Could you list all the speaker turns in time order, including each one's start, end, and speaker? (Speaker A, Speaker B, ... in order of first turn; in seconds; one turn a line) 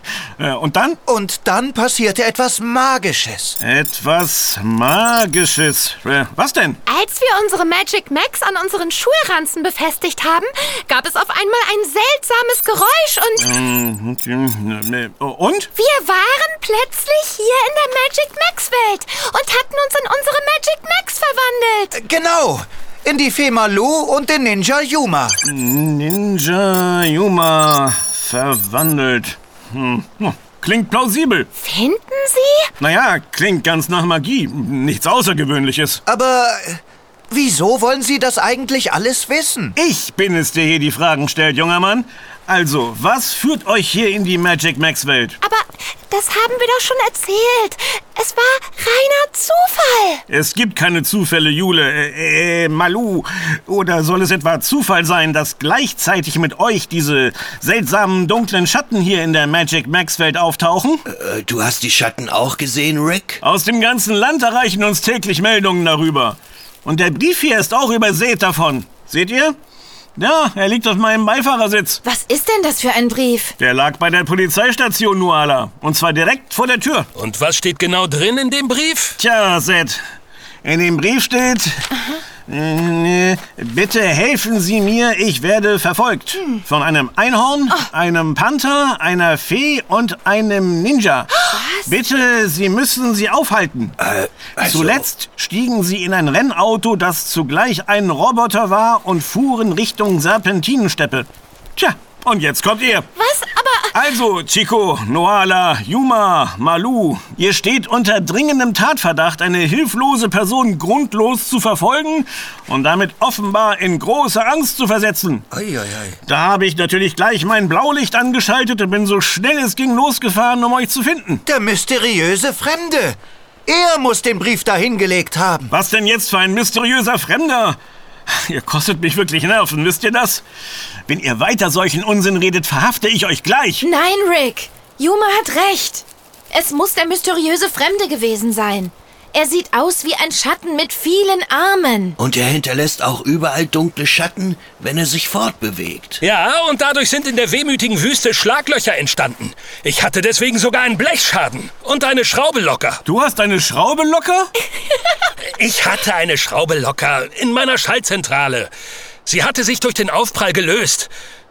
Speaker A: 0.4-1.0
Speaker B: 1.1-3.6
Speaker A: 3.6-6.8
Speaker C: 6.8-13.5
Speaker A: 13.4-15.7
Speaker C: 15.8-21.9
Speaker B: 21.9-25.4
Speaker A: 25.4-31.5
Speaker C: 31.6-32.7
Speaker A: 32.8-36.0
Speaker B: 36.1-39.8
Speaker A: 39.8-45.4
Speaker C: 45.4-50.2
Speaker A: 50.3-61.0
Speaker D: 61.1-63.4
Speaker A: 63.4-69.6
Speaker A: 70.2-72.0
Speaker E: 72.0-73.5
Speaker A: 73.6-77.1
Speaker F: 77.2-79.2
Speaker A: 79.2-80.0
Speaker A: 80.6-81.9
Speaker A: 82.5-94.0
Speaker E: 91.5-91.9
Speaker D: 94.0-95.0
Speaker A: 94.6-103.1
Speaker C: 103.2-104.0
Speaker A: 103.9-115.5
Speaker B: 115.5-116.2
Speaker A: 116.3-121.4
Speaker B: 121.5-123.2
Speaker B: 123.7-125.7
Speaker A: 125.7-127.8
Speaker A: 128.3-130.4
Speaker A: 131.1-133.9
Speaker E: 133.8-142.2
Speaker D: 142.2-146.2
Speaker F: 146.2-153.0
Speaker A: 153.1-154.5
Speaker F: 155.4-158.7
Speaker F: 159.2-161.1